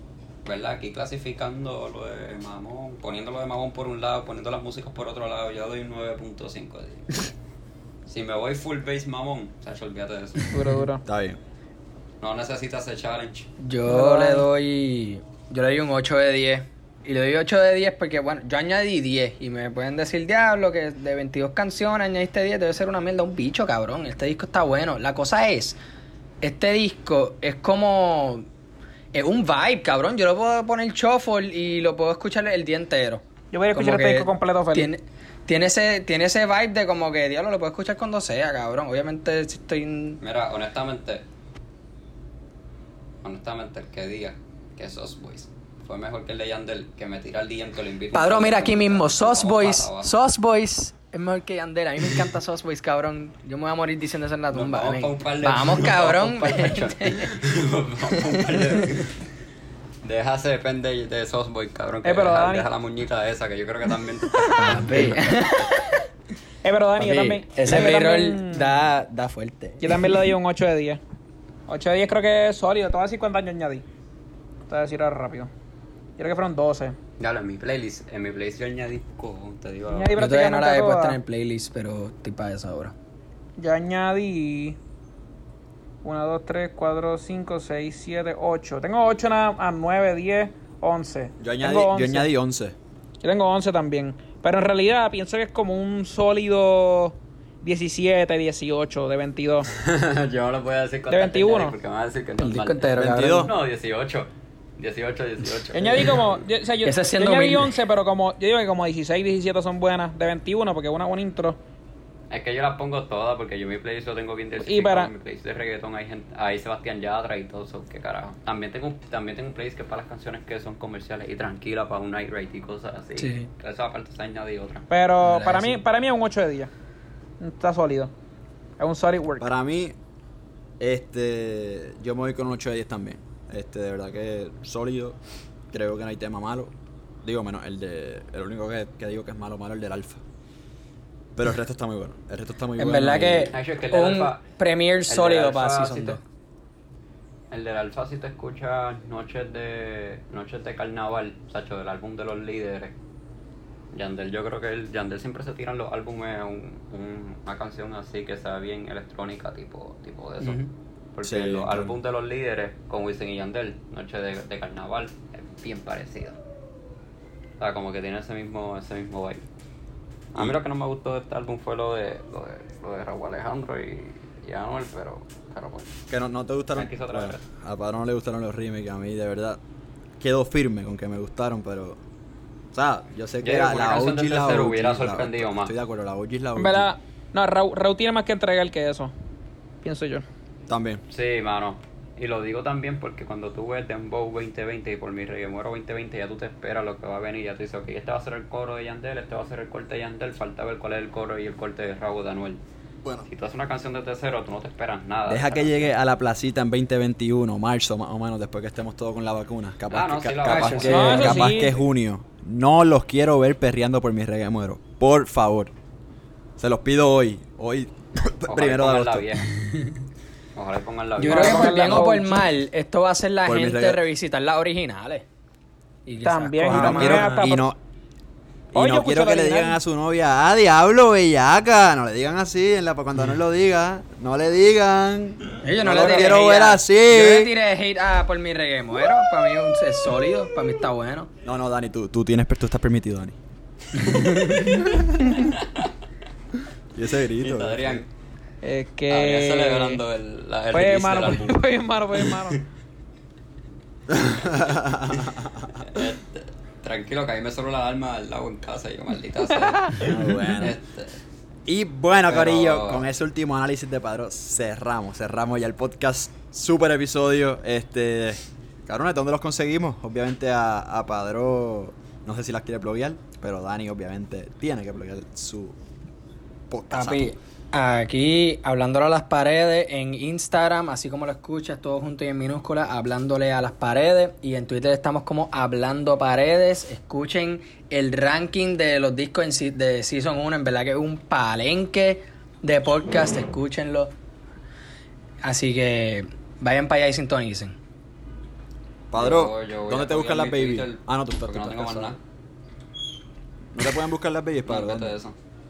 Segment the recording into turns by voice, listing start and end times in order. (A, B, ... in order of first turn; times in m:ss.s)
0:00.4-0:07.2 A
0:08.0-0:10.6 A
0:10.5-0:11.0 B
0:11.0-0:11.4 C
0:12.2-0:13.5 A
0:13.6-0:25.8 D
0:13.9-0:14.4 B
0:26.4-0:28.4 D
0:29.1-0:40.2 D
0:33.5-0:34.9 B
0:40.2-0:41.2 A
0:43.2-0:50.1 A
0:48.1-0:57.4 D
0:54.5-0:59.2 A
0:58.1-0:59.0 D
1:00.0-1:05.7 A
1:02.0-1:02.7 B
1:04.5-1:06.0 D
1:06.6-1:08.7 B
1:07.0-1:10.3 D
1:09.8-1:11.0 B
1:11.7-1:13.8 B
1:14.7-1:15.5 B
1:16.2-1:17.0 B
1:17.2-1:20.2 A
1:19.9-1:21.2 B
1:20.1-1:22.9 D
1:23.6-1:24.8 B
1:26.0-1:32.3 B
1:31.4-1:32.8 C
1:33.2-1:39.7 B
1:39.7-1:46.4 A
1:41.1-1:41.8 B
1:42.4-1:43.5 D
1:42.9-1:43.5 C
1:45.7-1:51.6 B
1:46.8-1:47.7 D
1:52.3-2:04.8 A
1:54.6-1:55.1 B
2:03.2-2:03.5 D
2:04.9-2:06.7 B
2:05.2-2:05.8 D
2:07.4-2:08.1 B
2:08.8-2:09.5 B
2:09.4-2:10.0 C
2:10.8-2:15.2 C
2:15.7-2:20.2 C
2:21.4-2:23.5 C
2:22.8-2:26.2 D
2:23.5-2:24.4 A
2:25.1-2:26.2 A
2:27.5-2:32.9 A
2:33.9-2:46.4 A
2:41.2-2:42.0 C
2:47.6-2:49.4 A
2:50.3-2:55.9 A
2:56.1-2:59.6 C
2:56.7-2:57.4 A
3:00.2-3:02.0 C
3:02.7-3:06.9 C
3:03.4-3:05.7 A
3:06.5-3:09.1 B
3:09.8-3:10.2 B
3:10.7-3:11.0 C
3:11.1-3:22.6 A
3:23.2-3:25.9 A
3:25.3-3:35.7 C
3:29.9-3:31.7 A
3:30.4-3:31.6 D
3:30.9-3:31.8 B
3:36.6-3:39.3 C
3:38.5-3:39.5 A
3:40.6-3:42.1 A
3:41.2-3:45.2 D
3:41.2-3:42.4 B
3:43.4-3:44.0 C
3:46.0-3:47.4 D
3:46.2-3:47.7 B
3:46.7-3:47.8 C
3:48.7-3:57.5 C
3:48.7-3:49.8 B
3:55.6-4:01.3 D
3:56.0-3:56.4 A
4:01.4-4:03.4 C
4:04.0-4:04.7 D
4:04.5-4:05.5 C
4:05.4-4:05.9 A
4:06.9-4:08.0 C
4:07.4-4:08.1 A
4:08.6-4:10.0 B
4:09.1-4:11.6 A
4:10.7-4:12.6 B
4:12.2-4:12.5 A
4:14.1-4:15.8 C
4:15.8-4:21.2 A
4:19.6-4:20.0 B
4:20.0-4:20.8 C
4:21.6-4:35.8 C
4:22.3-4:23.0 A
4:36.7-4:37.4 C
4:36.9-4:54.1 D
4:55.4-4:57.8 D
4:59.1-5:02.2 C
4:59.1-5:02.2 A
5:03.7-5:05.1 C
5:04.6-5:05.3 A